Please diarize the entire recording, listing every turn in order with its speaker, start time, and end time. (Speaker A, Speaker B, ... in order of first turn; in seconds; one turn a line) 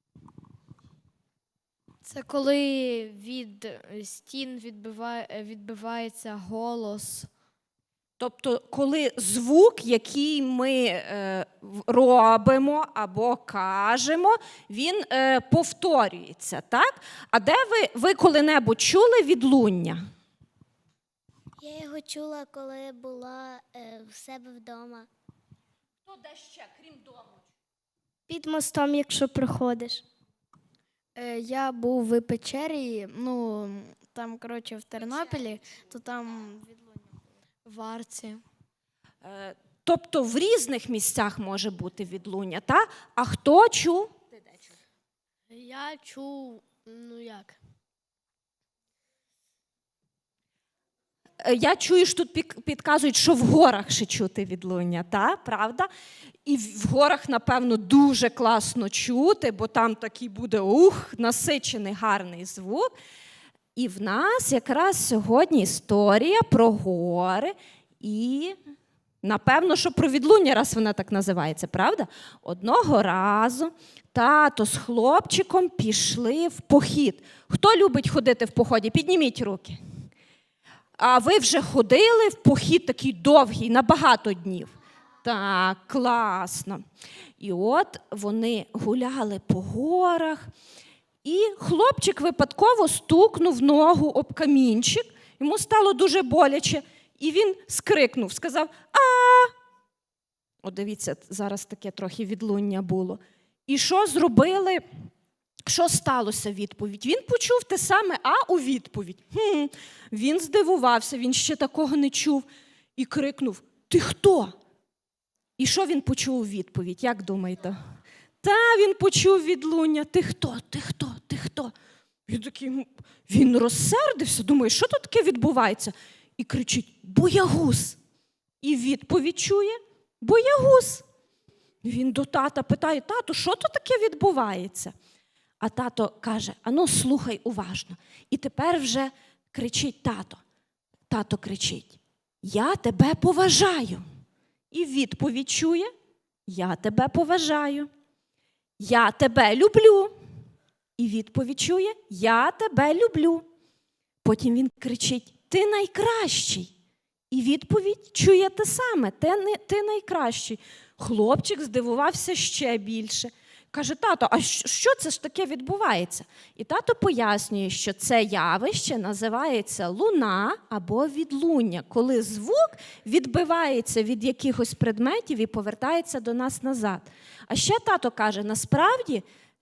Speaker A: 2.0-7.3
Speaker B: 8.2-20.0
Speaker C: 21.6-25.1
Speaker B: 26.1-27.2
Speaker C: 28.3-30.1
Speaker A: 31.2-36.8
Speaker A: 37.6-38.4
Speaker B: 39.2-44.1
Speaker A: 45.5-47.6
Speaker B: 51.4-55.9
Speaker B: 56.5-62.9
Speaker B: 63.8-68.6
Speaker B: 69.2-79.8
Speaker B: 81.0-84.7
Speaker B: 85.2-86.8
Speaker B: 87.4-90.5
Speaker B: 91.2-99.5
Speaker B: 100.6-104.8
Speaker B: 105.7-112.5
Speaker B: 113.0-114.5
Speaker B: 115.6-117.8
Speaker B: 118.4-121.7
Speaker B: 122.3-128.0
Speaker B: 128.6-131.1
Speaker B: 131.8-134.9
Speaker B: 135.6-140.4
Speaker B: 141.1-144.0
Speaker B: 144.7-145.9
Speaker B: 146.5-147.9
Speaker B: 148.8-150.1
Speaker B: 151.0-153.4
Speaker B: 154.2-156.7
Speaker B: 157.3-179.2